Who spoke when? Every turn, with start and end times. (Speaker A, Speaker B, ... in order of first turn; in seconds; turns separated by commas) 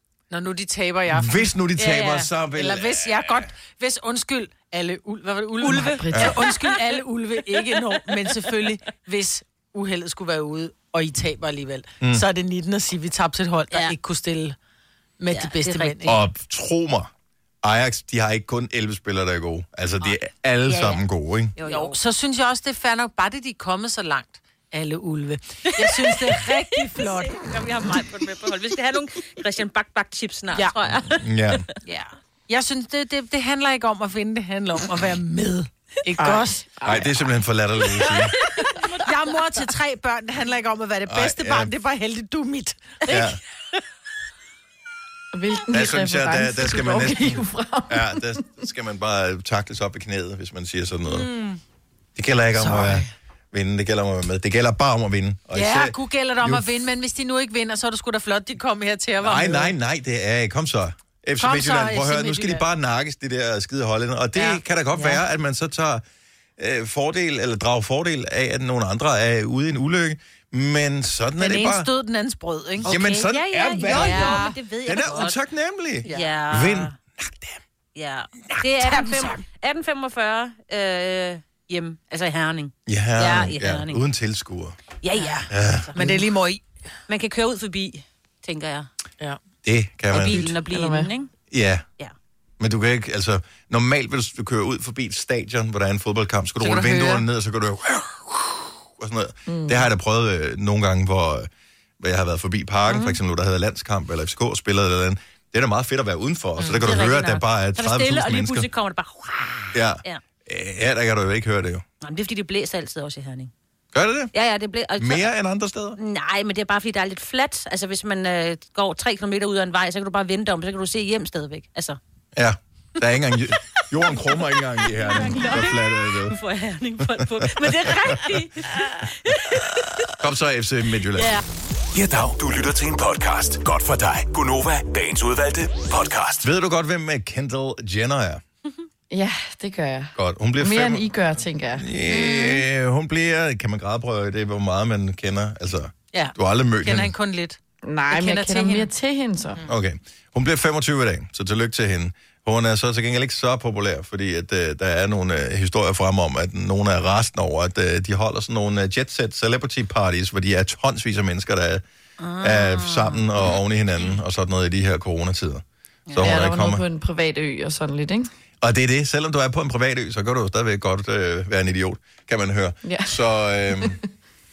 Speaker A: 0.3-1.5, Speaker B: 1.1-3.5, Speaker C: 1.8-2.3, Speaker A: 2.5-14.6, Speaker D: 5.7-6.2, Speaker B: 6.1-6.4, Speaker B: 12.0-12.2, Speaker A: 15.2-16.2, Speaker C: 15.3-16.1, Speaker B: 16.0-17.1, Speaker B: 17.6-21.5, Speaker C: 20.6-21.0, Speaker C: 21.6-21.9, Speaker A: 21.6-27.4, Speaker C: 25.8-31.6, Speaker B: 31.1-31.6, Speaker A: 31.8-37.0, Speaker D: 36.2-37.0, Speaker B: 36.8-38.3, Speaker A: 38.0-43.3, Speaker C: 38.8-39.0, Speaker B: 41.1-41.7, Speaker B: 43.1-43.4, Speaker D: 45.3-48.4, Speaker B: 45.7-51.3, Speaker A: 51.1-51.6, Speaker B: 52.1-56.7, Speaker A: 52.5-53.1, Speaker A: 55.5-59.7, Speaker B: 59.2-66.0, Speaker A: 61.4-62.6, Speaker A: 64.3-65.2, Speaker B: 66.6-71.9, Speaker A: 71.4-73.0, Speaker C: 72.8-75.4, Speaker B: 72.8-77.6, Speaker A: 73.8-74.5, Speaker A: 76.0-76.3, Speaker C: 76.0-76.9, Speaker C: 78.0-84.0, Speaker A: 78.8-79.4, Speaker B: 82.8-84.8, Speaker C: 85.0-86.0, Speaker A: 85.2-85.4, Speaker B: 85.5-85.9, Speaker A: 85.9-86.6, Speaker C: 87.1-88.9, Speaker B: 89.6-90.5, Speaker C: 90.1-91.3, Speaker D: 90.3-91.1, Speaker B: 91.5-91.8, Speaker B: 92.6-101.5, Speaker A: 96.6-97.2, Speaker D: 99.5-99.9, Speaker B: 102.0-108.7, Speaker C: 102.9-103.2, Speaker A: 106.6-106.9, Speaker C: 106.7-110.2, Speaker B: 109.7-111.8, Speaker C: 112.0-113.5, Speaker B: 113.9-114.3, Speaker C: 114.3-115.3, Speaker B: 115.0-116.0, Speaker C: 116.0-122.0, Speaker B: 122.3-126.4, Speaker C: 124.8-130.1, Speaker B: 127.0-128.4, Speaker B: 130.1-131.4, Speaker C: 131.1-131.4, Speaker E: 131.9-136.5, Speaker B: 136.4-138.4, Speaker D: 139.1-141.8, Speaker B: 140.2-141.1, Speaker B: 141.8-147.1, Speaker A: 146.1-147.6, Speaker D: 147.8-149.6, Speaker A: 148.1-148.9, Speaker B: 149.7-161.8, Speaker C: 162.2-163.2, Speaker B: 162.4-166.8, Speaker D: 166.2-168.3, Speaker B: 168.6-174.0, Speaker D: 172.8-173.2